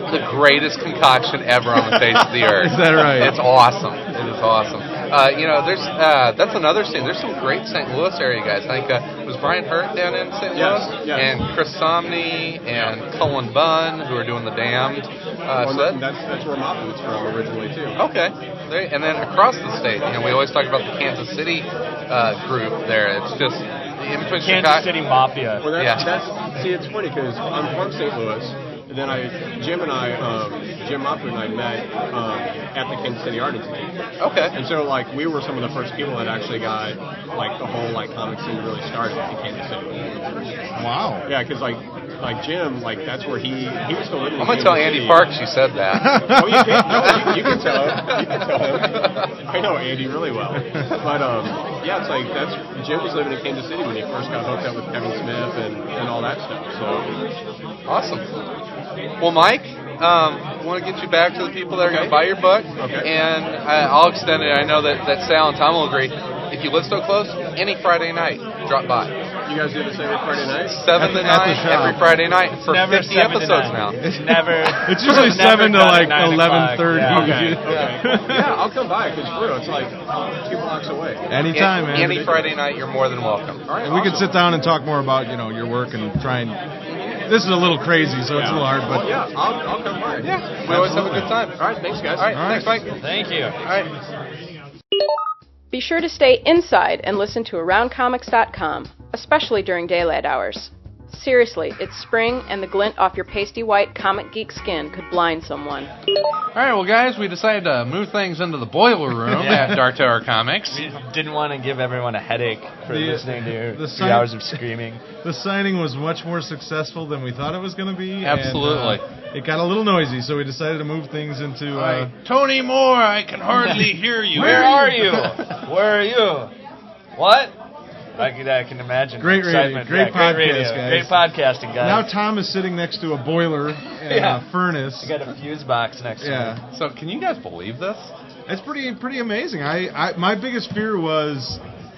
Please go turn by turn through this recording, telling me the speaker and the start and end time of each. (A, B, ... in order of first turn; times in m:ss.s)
0:00.1-0:16.0 A
0:02.4-0:03.4 B
0:10.5-0:11.3 C
0:15.6-0:18.0 C
0:18.0-0:24.9 A
0:24.4-0:25.7 D
0:25.6-0:33.9 C
0:25.8-0:26.1 A
0:34.2-0:34.6 A
0:34.5-0:40.0 C
0:40.8-0:41.3 B
0:41.3-0:45.3 C
0:44.4-0:46.2 A
0:46.0-0:47.5 B
0:46.3-0:57.1 C
0:46.9-0:49.3 A
0:57.9-0:58.2 A
0:59.2-1:09.1 A
1:01.8-1:02.2 C
1:02.8-1:03.1 C
1:09.4-1:10.9 C
1:10.7-1:14.0 A
1:10.9-1:12.1 B
1:12.6-1:17.9 D
1:14.0-1:18.6 B
1:17.0-1:21.4 C
1:21.3-1:22.3 B
1:21.5-1:23.6 A
1:23.7-1:24.4 C
1:23.8-1:26.6 B
1:27.3-1:29.1 B
1:28.3-1:31.0 C
1:30.2-1:32.9 A
1:30.7-1:31.4 B
1:31.6-1:32.4 C
1:32.3-1:32.8 B
1:33.0-1:33.6 D
1:35.7-1:45.9 E
1:46.6-1:50.8 A
1:49.3-1:49.9 D
1:50.7-1:55.0 D
1:52.9-1:54.6 B
1:55.2-2:02.1 B
1:58.2-1:59.0 A
2:01.7-2:05.5 A
2:04.3-2:06.5 D
2:04.4-2:04.8 B
2:07.2-2:07.6 D
2:08.2-2:12.1 D
2:09.2-2:11.2 B
2:11.8-2:15.1 B
2:14.0-2:14.4 D
2:15.0-2:16.6 D
2:16.2-2:16.6 B
2:16.7-2:18.1 A
2:18.5-2:21.6 B